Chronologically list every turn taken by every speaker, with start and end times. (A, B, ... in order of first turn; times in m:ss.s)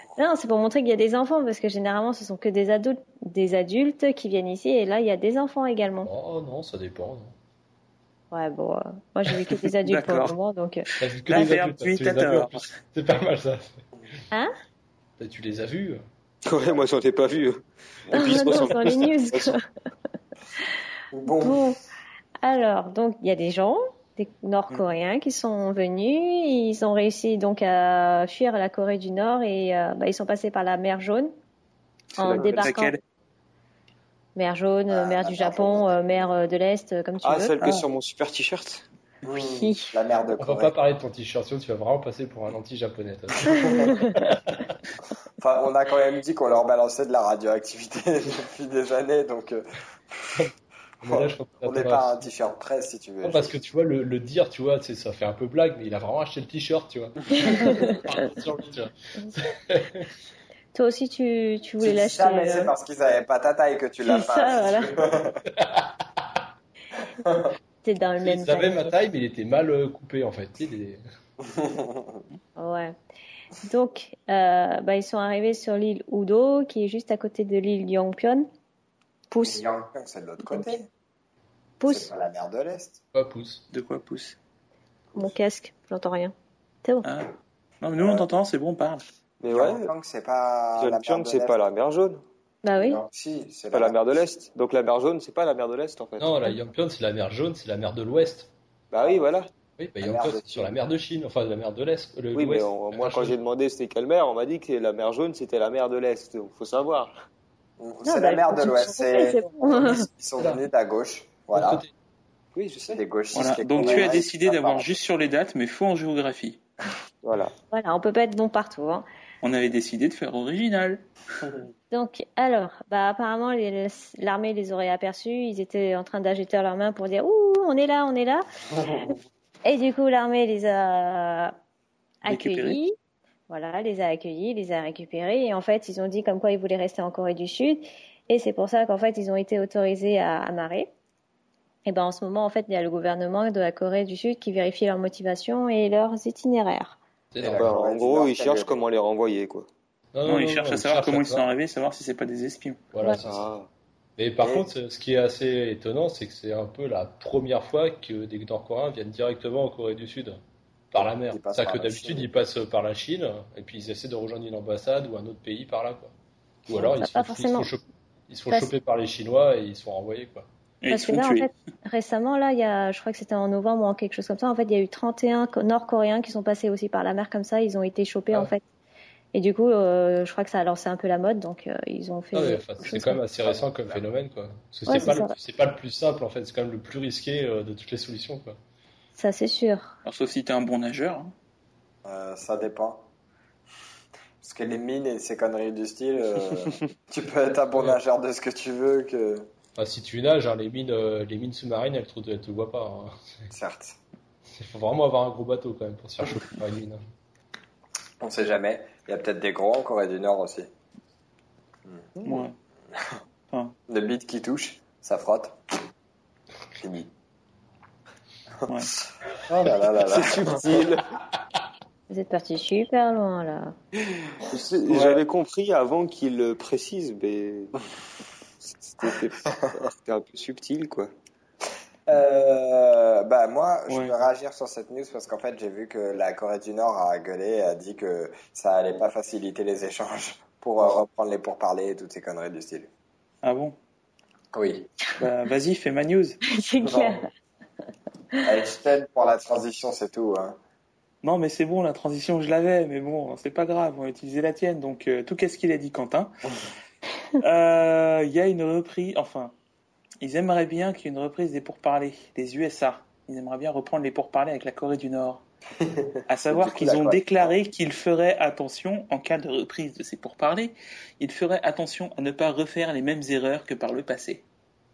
0:00.2-0:06.1 A
0:06.0-0:07.3 B
0:08.3-0:10.8 A
0:09.8-0:10.4 C
0:10.9-0:12.7 C
0:11.0-0:13.8 B
0:15.2-0:16.0 B
0:16.4-0:19.6 D
0:18.1-0:19.6 A
0:21.1-0:21.7 E
0:21.4-0:21.8 A
0:22.4-0:31.3 A
0:32.2-0:33.0 A
0:32.2-0:33.0 C
0:32.2-0:32.7 D
0:34.4-0:37.5 A
0:34.9-0:36.3 E
0:37.2-0:38.8 D
0:37.6-0:37.9 C
0:39.2-0:40.7 E
0:39.2-0:40.0 A
0:40.4-0:44.7 B
0:43.4-0:43.9 E
0:43.9-0:44.1 A
0:45.4-0:50.4 E
0:50.4-0:52.2 B
0:51.1-0:53.5 E
0:53.2-1:00.1 B
0:57.4-0:58.0 A
0:57.5-0:58.0 E
1:00.7-1:02.7 A
1:01.8-1:05.4 E
1:04.0-1:04.9 A
1:07.2-1:07.5 E
1:07.8-1:08.8 A
1:08.3-1:11.0 B
1:08.4-1:08.8 C
1:11.4-1:12.2 E
1:12.6-1:12.9 A
1:13.6-1:18.5 A
1:19.3-1:19.6 A
1:19.4-1:20.9 E
1:21.8-1:22.1 A
1:21.9-1:23.0 E
1:23.1-1:23.6 B
1:23.7-1:24.4 C
1:25.2-1:27.1 A
1:27.0-1:29.0 C
1:28.0-1:28.3 E
1:29.4-1:29.9 D
1:29.5-1:31.6 E
1:30.8-1:32.2 D
1:32.6-1:33.0 A
1:32.7-1:34.2 E
1:33.7-1:36.4 D
1:36.2-1:38.5 B
1:38.9-1:39.5 D
1:39.8-1:43.4 B
1:40.0-1:40.7 E
1:42.3-1:47.1 D
1:47.8-1:51.8 E
1:48.0-1:50.0 A
1:50.4-1:50.6 B
1:51.5-1:51.9 B
1:52.5-1:53.0 D
1:52.8-1:55.0 E
1:53.3-1:56.6 C
1:53.8-1:54.1 D
1:57.2-1:57.5 D
1:57.7-1:59.0 A
1:59.4-2:01.0 C
2:01.9-2:08.4 A
2:09.6-2:11.5 A
2:12.2-2:12.9 A
2:12.2-2:12.8 C
2:13.5-2:20.9 A
2:21.8-2:27.0 A
2:27.3-2:27.7 B
2:27.4-2:28.8 E
2:27.5-2:29.7 D
2:30.1-2:31.5 B
2:30.2-2:32.8 C
2:32.9-2:33.4 B
2:33.2-2:33.7 D
2:34.2-2:40.4 B
2:34.4-2:34.7 E
2:40.9-2:46.1 B
2:40.9-2:42.4 E
2:46.7-2:50.5 B
2:46.7-2:47.7 A
2:50.8-2:51.5 C
2:50.9-2:58.6 A
2:59.3-3:03.2 A
3:02.3-3:08.6 B
3:03.4-3:04.0 E
3:04.9-3:05.3 A
3:09.2-3:09.9 A
3:10.0-3:11.3 C
3:12.0-3:13.0 E
3:14.4-3:19.5 E
3:19.8-3:23.1 B
3:23.5-3:24.0 E
3:24.6-3:27.0 B
3:28.2-3:30.7 E
3:31.9-3:33.1 E
3:32.2-3:32.6 C
3:33.9-3:35.6 E
3:36.8-3:37.1 E
3:38.6-3:38.9 C
3:39.4-3:40.8 E
3:40.0-3:41.0 D
3:42.1-3:43.7 A
3:44.4-3:47.8 D
3:44.9-3:45.2 C
3:48.6-3:51.1 D
3:52.1-4:02.9 E
3:53.9-3:54.1 C
4:03.4-4:03.8 C
4:04.5-4:04.9 E
4:05.2-4:06.4 C
4:06.5-4:07.3 A
4:06.8-4:07.2 E
4:08.4-4:10.6 E
4:11.2-4:16.3 C
4:17.4-4:19.5 C
4:20.2-4:25.4 C
4:25.8-4:27.5 E
4:26.3-4:34.4 C